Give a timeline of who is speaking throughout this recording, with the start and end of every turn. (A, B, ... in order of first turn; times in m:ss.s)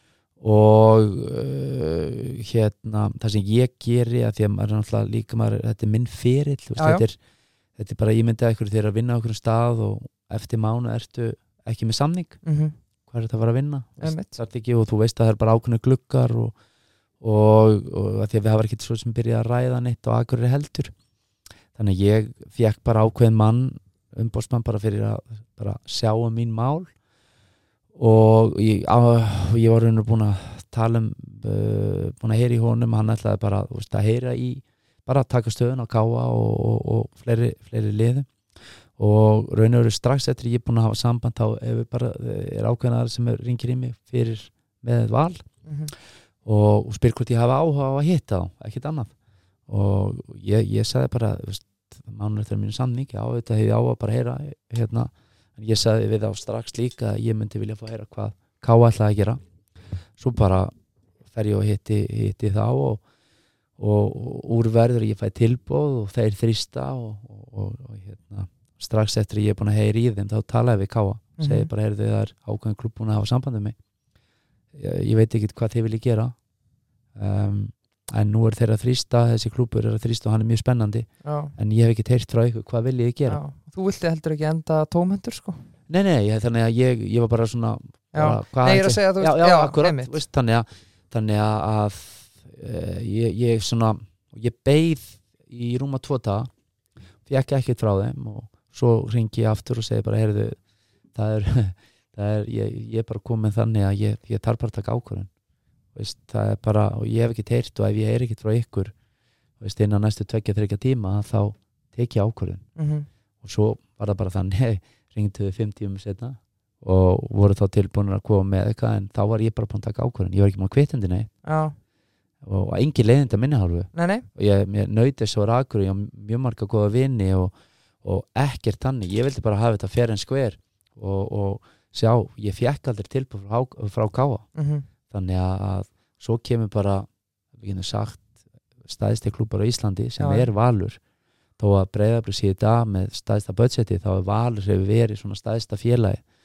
0:00.4-0:07.2 A
0:06.8-0:07.0 B
0:07.8-0:12.4 A
0:12.4-0:12.8 B
0:13.1-0:16.6 A
0:14.0-0:14.3 B
0:17.2-0:20.9 A
0:21.8-0:26.9 A
0:28.0-0:38.3 A
0:39.0-0:45.5 A
0:45.6-0:45.9 B
0:46.4-0:49.1 A
0:49.7-0:59.4 A
1:00.2-1:00.7 A
1:01.3-1:03.0 A
1:03.8-1:13.8 A
1:11.4-1:11.7 B
1:14.7-1:16.4 A
1:17.2-1:23.4 A
1:21.2-1:21.5 B
1:23.3-1:25.7 B
1:25.9-1:36.5 A
1:28.1-1:30.1 B
1:37.2-1:40.6 A
1:41.1-1:45.3 A
1:45.9-1:49.0 A
1:49.6-1:52.7 A
1:52.8-1:53.1 B
1:53.4-2:01.3 A
2:01.4-2:01.8 B
2:02.4-2:14.5 A
2:03.9-2:04.3 B
2:14.6-2:14.9 B
2:15.1-2:18.3 A
2:18.8-2:21.0 A
2:20.2-2:20.5 B
2:21.6-2:26.2 A